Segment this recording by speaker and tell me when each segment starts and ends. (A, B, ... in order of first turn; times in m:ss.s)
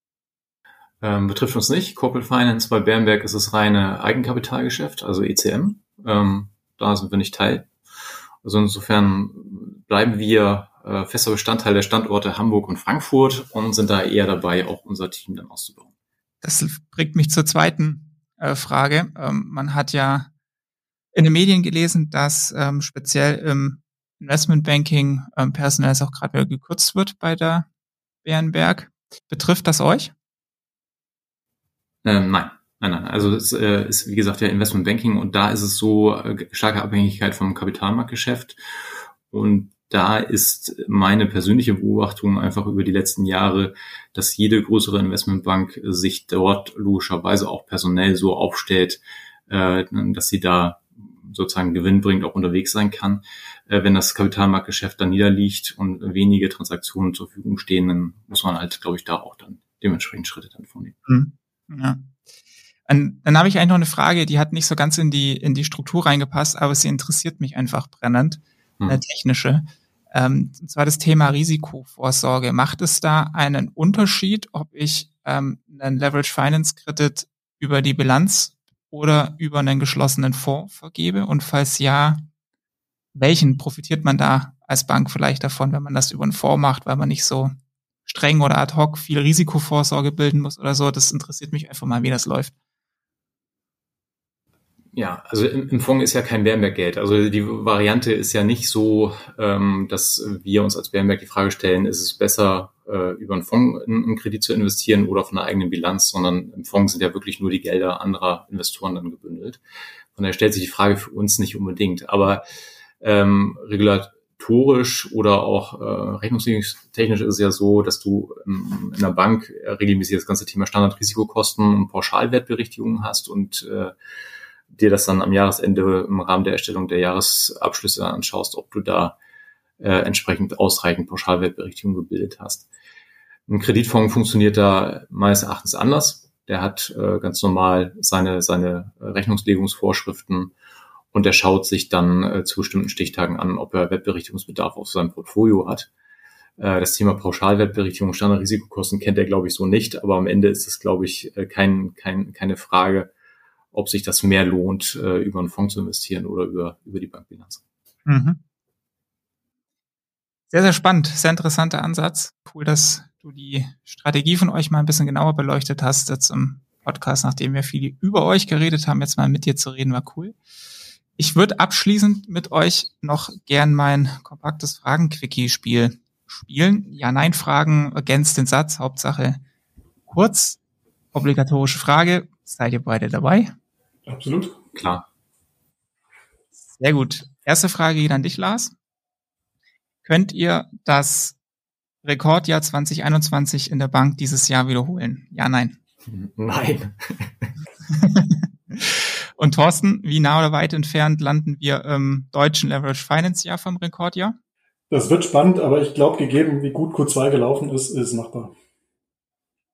0:01.0-0:07.7 A
0:08.4-0:15.9 A
0:16.4-0:20.3 B
0:21.1-0:27.6 B
0:28.2-0:30.1 B
0:32.0-0:38.6 A
0:39.3-1:01.0 A
1:01.0-1:02.2 B
1:02.9-1:22.2 B
1:23.1-1:27.5 B
1:28.0-1:32.5 B
1:34.9-1:49.6 A
1:50.1-1:52.4 A
1:53.0-2:03.9 A
2:04.7-2:09.2 A
2:09.8-2:12.7 A
2:13.5-2:20.5 A
2:21.1-2:25.9 A
2:26.6-2:33.1 A
2:33.7-2:37.6 A
2:38.0-2:38.4 B
2:40.5-2:50.4 B
2:51.2-2:59.4 B
3:00.1-3:00.6 B
3:01.1-3:03.5 B
3:04.1-3:04.6 C
3:04.7-3:05.0 A
3:06.7-3:08.7 B
3:10.0-3:11.4 B
3:12.0-3:15.8 B
3:16.1-3:17.5 A
3:17.9-3:24.4 B
3:24.9-3:28.5 C